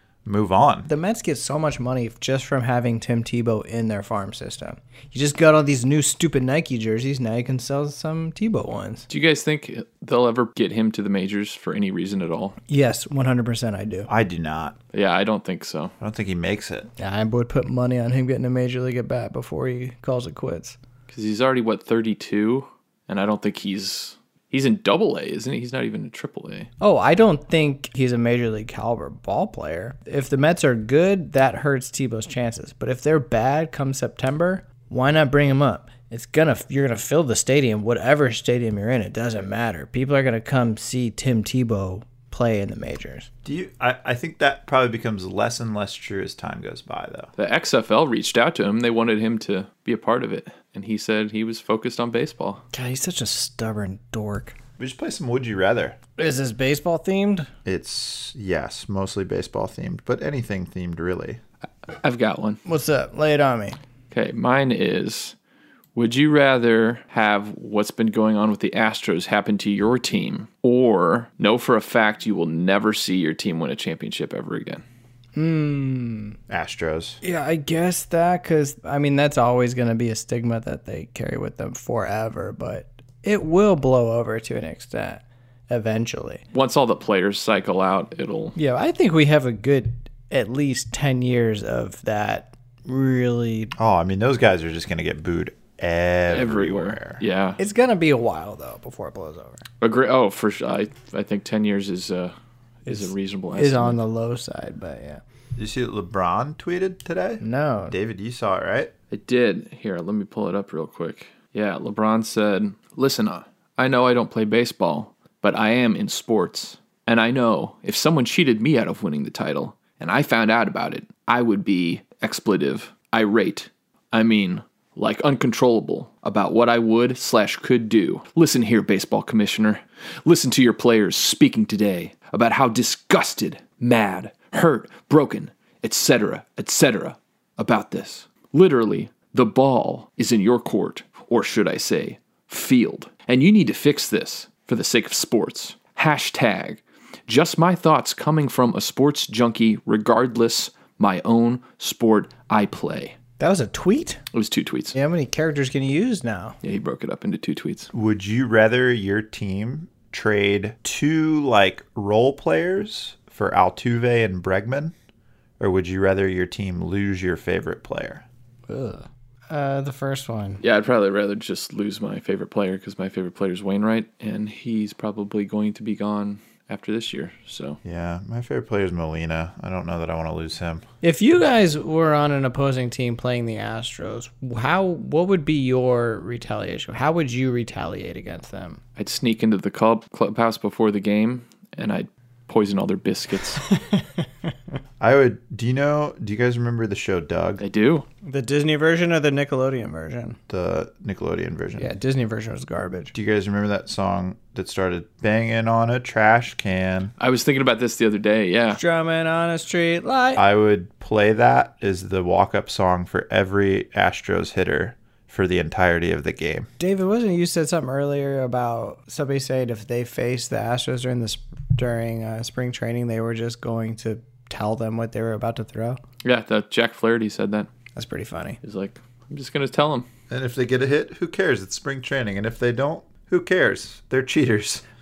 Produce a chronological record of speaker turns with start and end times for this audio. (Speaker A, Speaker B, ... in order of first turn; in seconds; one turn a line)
Speaker A: 0.2-0.9
Speaker B: 0.9-9.1
Speaker C: 9.1-12.6
Speaker B: 12.7-14.1
Speaker A: 14.1-14.8
Speaker C: 14.9-15.9
Speaker A: 16.0-16.9
Speaker B: 17.0-20.8
Speaker C: 21.1-26.7
Speaker B: 26.8-43.3
Speaker A: 43.5-47.3
Speaker C: 47.4-52.6
Speaker B: 52.7-54.6
Speaker A: 54.8-56.0
Speaker B: 56.2-57.5
Speaker A: 57.6-61.4
Speaker C: 62.0-62.6
Speaker B: 62.6-63.8
Speaker C: 64.1-65.3
Speaker C: 66.0-74.8
Speaker B: 75.4-76.4
Speaker A: 76.5-77.2
Speaker B: 77.2-86.4
Speaker C: 86.5-88.5
Speaker B: 88.6-93.7
Speaker A: 93.8-97.2
Speaker C: 96.3-97.6
Speaker B: 97.6-99.6
Speaker C: 99.8-102.3
Speaker C: 102.9-104.0
Speaker B: 102.9-105.2
Speaker A: 105.6-108.9
Speaker B: 107.4-108.0
Speaker C: 109.1-153.2
Speaker B: 153.4-154.2
Speaker C: 154.3-154.9
Speaker B: 154.9-156.6
Speaker C: 156.6-157.9
Speaker A: 157.9-164.9
Speaker A: 165.6-168.2
Speaker B: 168.7-170.6
Speaker C: 170.6-177.8
Speaker A: 177.8-180.8
Speaker B: 181.0-188.8
Speaker C: 189.0-193.7
Speaker B: 193.7-194.2
Speaker A: 195.0-197.6
Speaker C: 197.6-198.1
Speaker B: 198.2-200.4
Speaker A: 200.5-201.9
Speaker B: 201.8-203.1
Speaker A: 203.1-207.1
Speaker C: 207.2-208.8
Speaker B: 208.7-210.4
Speaker A: 210.4-216.7
Speaker B: 216.8-226.0
Speaker C: 226.2-227.7
Speaker B: 228.0-228.6
Speaker C: 228.6-230.1
Speaker A: 230.3-234.8